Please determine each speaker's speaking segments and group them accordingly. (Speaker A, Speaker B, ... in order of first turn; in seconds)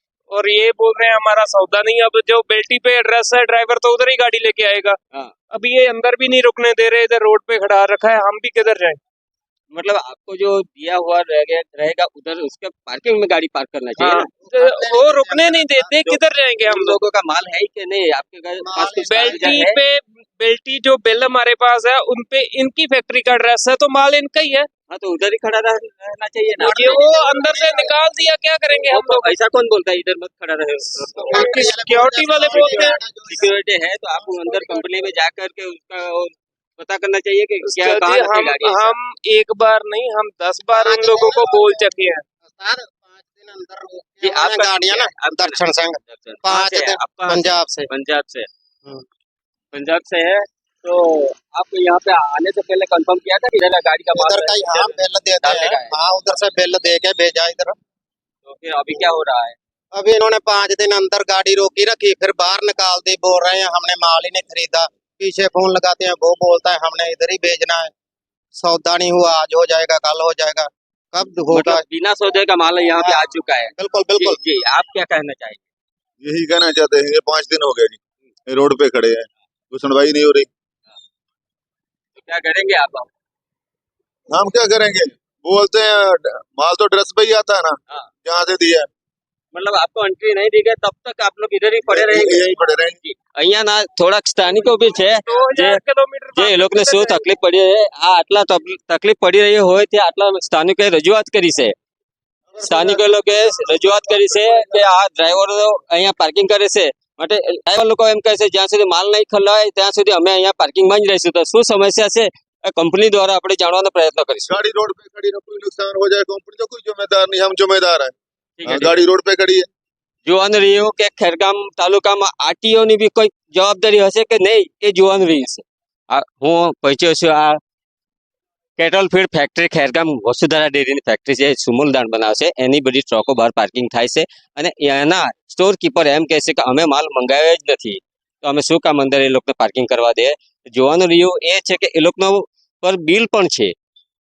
Speaker A: 0.3-5.0, 5.5-9.0, 14.0-17.0, 19.0-24.7, 26.6-29.3, 31.1-33.0, 37.6-42.2, 94.5-97.3
Speaker B: 9.7-14.3, 16.0-19.8, 24.9-27.2, 28.7-31.5, 33.3-39.0, 44.2-48.5, 49.7-56.0, 58.4-59.6, 71.5-75.6, 82.2-83.1, 89.5-95.8, 96.3-101.7, 102.6-114.6, 118.6-119.0, 120.3-127.6, 128.8-143.7
Speaker C: 14.4-16.0, 18.6-19.6, 26.8-28.0, 31.2-33.5, 34.2-34.9, 40.7-41.8, 42.5-47.9, 54.1-57.8, 60.0-67.9, 68.6-71.8, 73.0-73.2, 73.8-74.4
Speaker D: 76.2-80.5, 84.3-88.9, 91.9-93.0, 114.5-119.7